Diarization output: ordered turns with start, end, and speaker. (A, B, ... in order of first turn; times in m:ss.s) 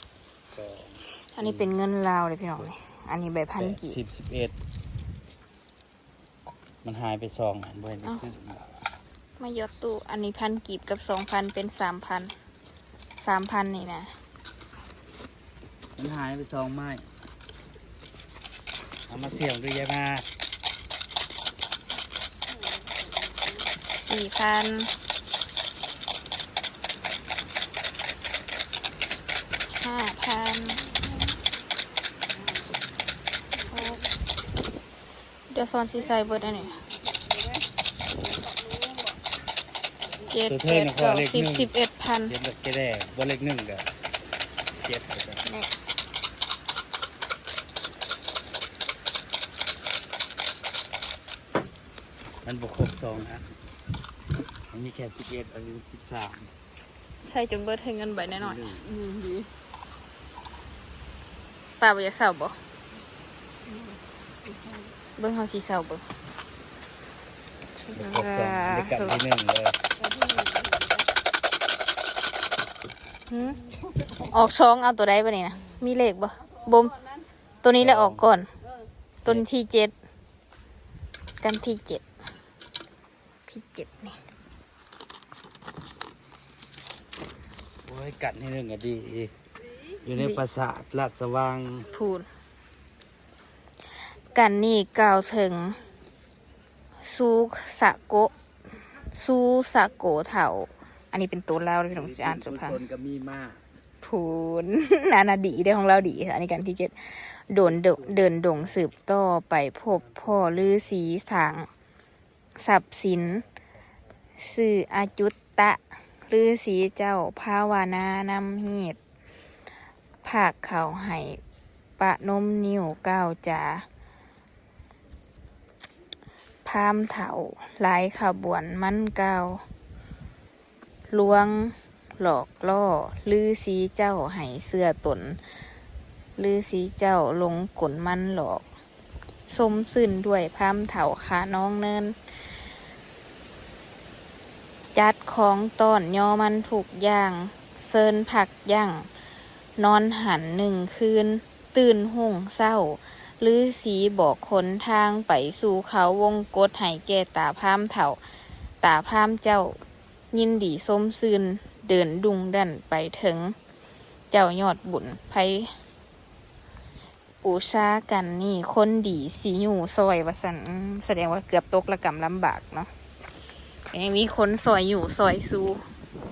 0:00.5-0:01.7 A
0:01.3-0:04.0 B
0:03.6-0:04.5 A
0:06.8-0:08.8 A
0:09.4-0:12.3 B
0:13.2-0:14.2 B
0:16.0-0:17.0 A
0:19.1-0:20.3 A
0:22.5-0:23.8 C
0:24.0-0:25.0 B
0:29.7-0:30.8 B
0:32.4-0:32.7 C
0:33.7-0:34.0 B
0:33.7-0:34.0 C
0:35.5-0:36.8 B
0:36.1-0:39.2 C
0:40.3-0:42.3 B
0:40.4-0:41.7 A
0:42.2-0:44.0 A
0:44.7-0:45.5 A
0:52.4-0:53.5 A
0:54.7-0:56.5 A
0:57.2-0:58.6 B
0:58.3-0:58.9 A
0:58.7-0:59.5 C
1:01.8-1:02.6 B
1:05.2-1:06.0 B
1:07.8-1:09.2 B
1:07.9-1:09.8 A
1:10.0-1:11.1 C
1:13.3-1:13.6 B
1:14.2-1:17.0 B
1:17.6-1:18.5 B
1:17.8-1:18.2 A
1:19.2-1:19.9 B
1:21.4-1:22.0 B
1:23.5-1:24.2 B
1:27.8-1:29.3 A
1:30.0-1:31.9 A
1:31.9-1:32.3 B
1:34.2-1:35.8 B
1:37.0-1:42.8 B
1:41.9-1:43.6 A
1:44.0-1:51.7 B
1:47.6-1:48.9 A
1:49.9-1:51.0 A
1:52.6-1:53.4 B
1:53.4-1:53.6 A
1:54.4-1:59.0 B
2:00.2-2:01.4 B
2:02.0-2:03.9 B
2:06.6-2:09.6 B
2:11.1-2:15.6 B
2:16.4-2:18.6 B
2:19.5-2:22.6 B
2:24.9-2:29.1 B
2:29.8-2:38.2 B
2:38.8-2:39.8 B
2:40.3-2:43.6 B
2:44.3-2:45.8 B
2:47.4-2:52.9 B
2:53.9-2:55.8 B